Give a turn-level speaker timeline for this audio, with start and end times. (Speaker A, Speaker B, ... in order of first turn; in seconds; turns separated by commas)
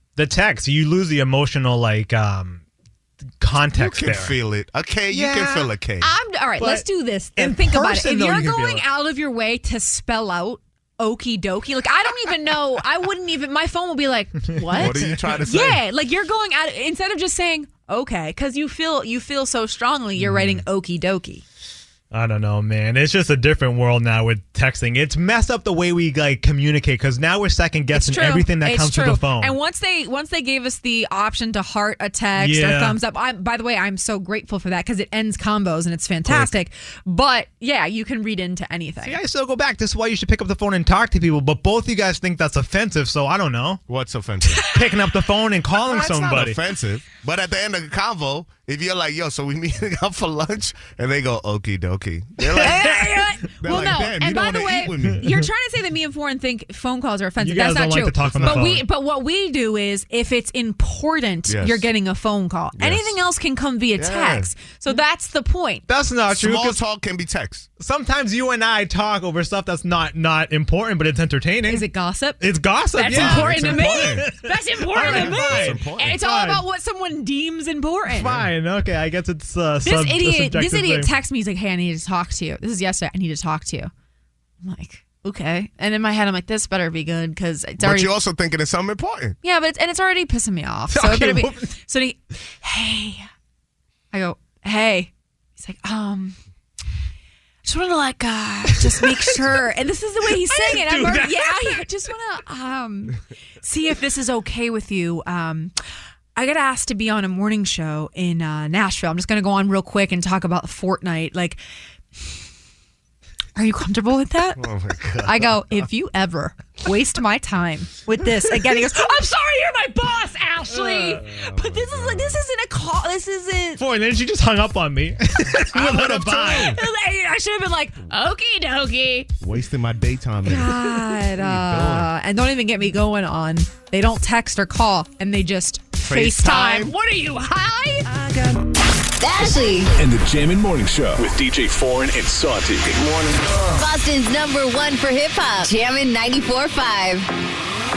Speaker A: 0.1-2.6, Speaker A: 3.4-4.3, Speaker B: 3.7-6.1, Speaker A: 5.1-5.7, Speaker C: 6.0-21.4, Speaker A: 6.6-8.8, Speaker A: 14.5-15.3, Speaker B: 14.7-15.8, Speaker A: 20.2-20.6, Speaker A: 22.1-29.6, Speaker C: 27.9-39.2, Speaker A: 32.4-33.0, Speaker A: 36.2-36.5, Speaker A: 39.0-43.8, Speaker B: 43.9-44.7, Speaker A: 44.6-46.6, Speaker B: 45.8-55.3, Speaker C: 52.5-65.8, Speaker A: 57.4-58.9, Speaker B: 58.3-58.6, Speaker B: 61.5-61.9, Speaker B: 62.8-63.2, Speaker B: 64.0-64.5, Speaker A: 65.9-66.8, Speaker B: 66.3-67.7, Speaker A: 67.8-71.9, Speaker C: 71.7-78.4, Speaker A: 72.4-76.6, Speaker B: 73.1-74.3, Speaker B: 74.9-76.2, Speaker A: 78.1-81.1, Speaker C: 79.8-83.9, Speaker C: 84.6-88.1, Speaker B: 87.8-89.4, Speaker C: 89.4-93.3, Speaker A: 90.9-91.7, Speaker C: 94.1-96.4, Speaker C: 97.6-105.7, Speaker A: 100.3-101.8, Speaker C: 106.3-111.6, Speaker C: 113.5-114.6, Speaker B: 114.5-115.9, Speaker C: 115.2-123.8, Speaker A: 120.7-121.2, Speaker B: 121.3-122.4, Speaker A: 123.8-126.8, Speaker C: 125.7-129.3, Speaker B: 125.8-126.7, Speaker B: 129.4-132.1, Speaker C: 130.4-138.6, Speaker B: 136.0-136.9, Speaker D: 139.2-139.9, Speaker E: 139.9-143.0, Speaker D: 143.6-147.3